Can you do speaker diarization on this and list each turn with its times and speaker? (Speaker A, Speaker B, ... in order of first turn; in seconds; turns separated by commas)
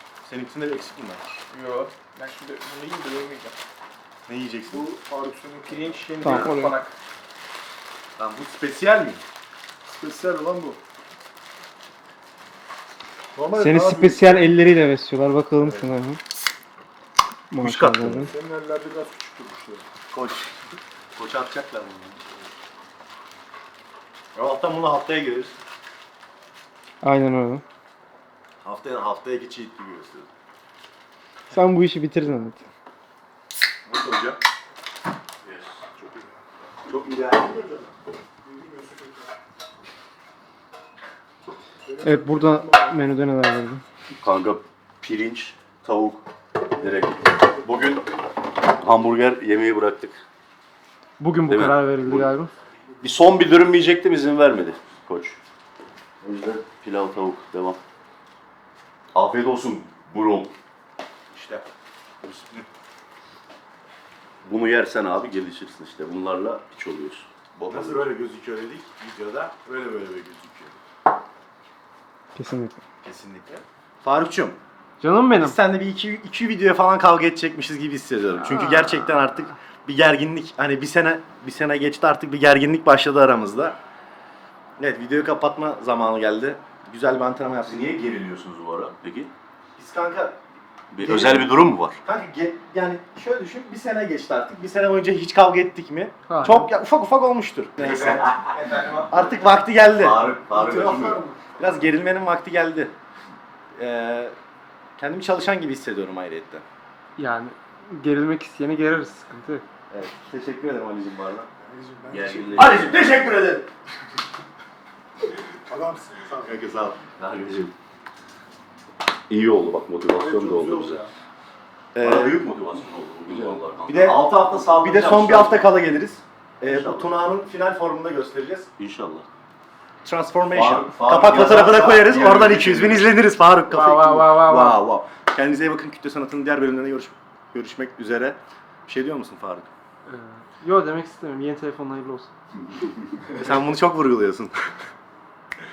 Speaker A: 0.2-1.9, Speaker B: 2.0-3.5, Speaker A: 4.3-4.9, Speaker C: 4.7-6.5, Speaker B: 6.1-6.9, Speaker D: 6.2-6.7, Speaker E: 6.2-6.5, Speaker A: 8.2-9.2, Speaker C: 9.8-10.8, Speaker C: 13.3-14.5, Speaker D: 13.6-16.2, Speaker C: 15.6-15.9, Speaker D: 17.5-18.3, Speaker A: 17.6-18.3, Speaker C: 18.2-19.9, Speaker A: 20.1-20.5, Speaker A: 21.1-22.3, Speaker A: 24.3-25.5, Speaker D: 27.0-27.6, Speaker A: 28.6-30.3, Speaker D: 31.5-32.6, Speaker A: 33.9-34.4, Speaker E: 35.5-35.8, Speaker A: 35.9-36.2, Speaker A: 36.9-37.6, Speaker C: 37.6-37.9, Speaker C: 38.4-39.2, Speaker C: 41.9-43.0, Speaker D: 42.0-43.8, Speaker E: 44.2-48.0, Speaker E: 48.7-50.2, Speaker D: 51.2-52.5, Speaker E: 51.5-52.3, Speaker E: 53.0-55.4, Speaker E: 56.2-57.8, Speaker E: 59.1-60.5, Speaker A: 61.3-61.7, Speaker A: 62.2-62.6, Speaker E: 64.4-68.1, Speaker A: 67.7-70.8, Speaker D: 72.3-72.8, Speaker A: 73.0-74.6, Speaker D: 75.0-75.6, Speaker A: 75.3-83.8, Speaker D: 78.5-79.1, Speaker A: 84.8-88.0, Speaker E: 87.6-89.3, Speaker A: 89.8-90.4, Speaker E: 90.9-92.0, Speaker A: 91.0-100.2, Speaker D: 96.3-96.7, Speaker E: 97.8-101.2, Speaker C: 100.5-101.9, Speaker A: 101.6-102.9, Speaker A: 103.8-104.3, Speaker A: 105.0-106.6, Speaker D: 107.2-109.6, Speaker A: 109.9-111.5, Speaker E: 110.1-110.9, Speaker C: 111.6-112.9, Speaker E: 112.1-113.0, Speaker A: 112.5-113.7, Speaker C: 115.7-116.6, Speaker A: 116.4-117.0, Speaker E: 117.2-117.7, Speaker E: 119.3-121.0, Speaker C: 120.2-121.1, Speaker A: 121.9-122.4, Speaker E: 122.0-125.7, Speaker A: 123.3-128.7, Speaker E: 126.6-127.2, Speaker E: 128.8-129.2, Speaker A: 130.0-139.7, Speaker E: 130.5-133.1, Speaker D: 133.7-134.8, Speaker D: 140.1-142.3, Speaker A: 143.3-144.5